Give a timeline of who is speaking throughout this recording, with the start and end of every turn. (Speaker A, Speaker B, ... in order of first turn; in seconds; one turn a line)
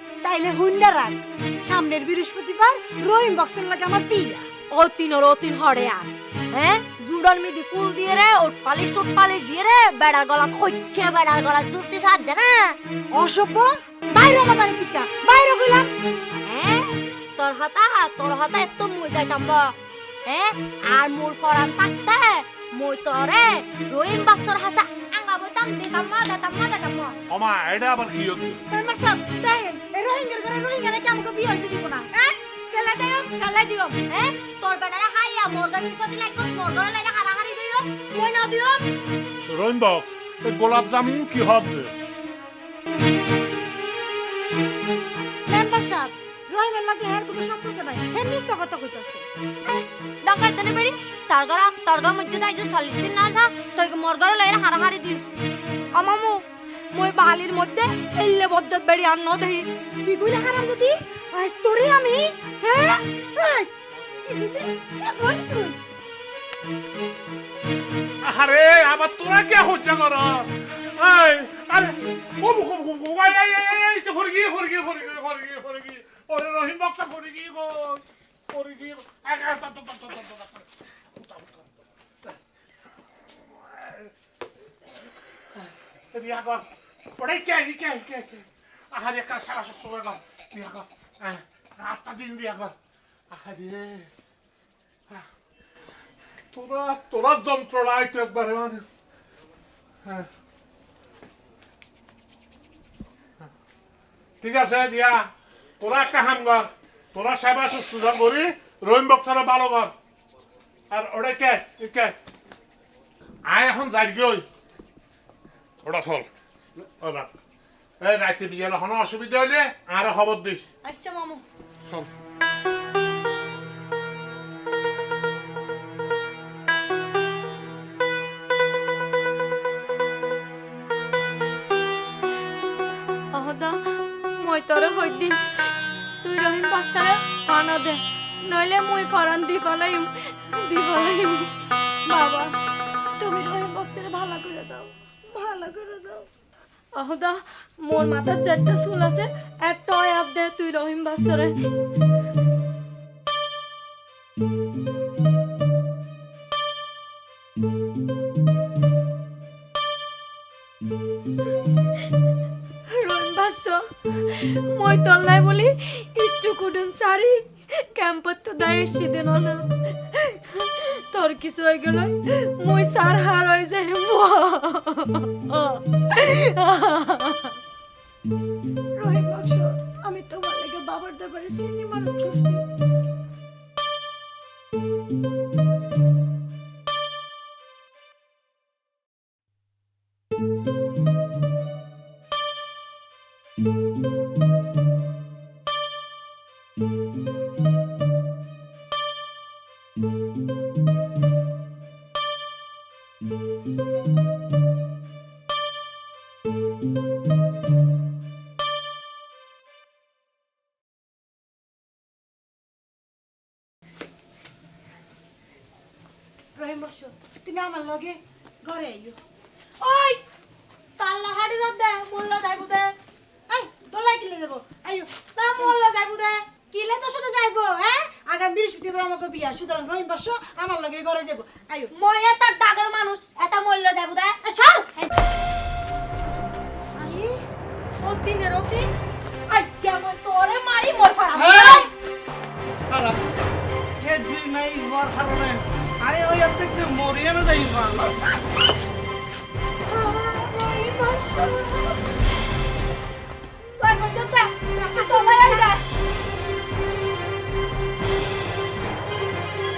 Speaker A: 0.2-4.5
Speaker B: 4.7-12.8
Speaker A: 13.1-15.9
Speaker B: 16.4-19.7
Speaker B: 20.2-27.1
Speaker C: 27.3-28.6
Speaker A: 28.7-32.1
Speaker B: 32.1-38.9
Speaker C: 39.5-41.9
Speaker A: 45.5-49.3
Speaker B: 49.6-55.2
Speaker B: 55.9-59.7
Speaker A: 60.0-63.7
Speaker A: 64.2-65.8
Speaker C: 68.2-81.8
Speaker C: 83.5-84.1
Speaker C: 85.6-92.7
Speaker C: 93.3-94.1
Speaker C: 96.5-98.8
Speaker C: 104.4-105.3
Speaker C: 105.8-109.9
Speaker C: 110.9-112.1
Speaker C: 113.5-114.5
Speaker C: 115.8-116.3
Speaker C: 117.0-117.3
Speaker C: 118.0-120.7
Speaker B: 120.8-121.4
Speaker C: 121.8-122.1
Speaker B: 133.3-133.8
Speaker B: 134.4-135.4
Speaker B: 136.2-141.5
Speaker A: 142.1-142.5
Speaker A: 143.2-146.2
Speaker B: 146.9-151.5
Speaker B: 162.9-177.6
Speaker A: 178.9-182.6
Speaker A: 216.6-219.2
Speaker B: 219.8-220.2
Speaker B: 221.0-222.9
Speaker A: 223.5-225.8
Speaker B: 225.3-226.4
Speaker A: 226.7-231.9
Speaker B: 231.9-234.4
Speaker A: 234.4-234.9
Speaker A: 236.9-237.4
Speaker B: 238.0-238.9
Speaker B: 239.5-241.9
Speaker D: 241.3-241.9
Speaker D: 242.9-243.2
Speaker D: 244.0-248.2
Speaker B: 249.9-251.9
Speaker B: 253.8-255.8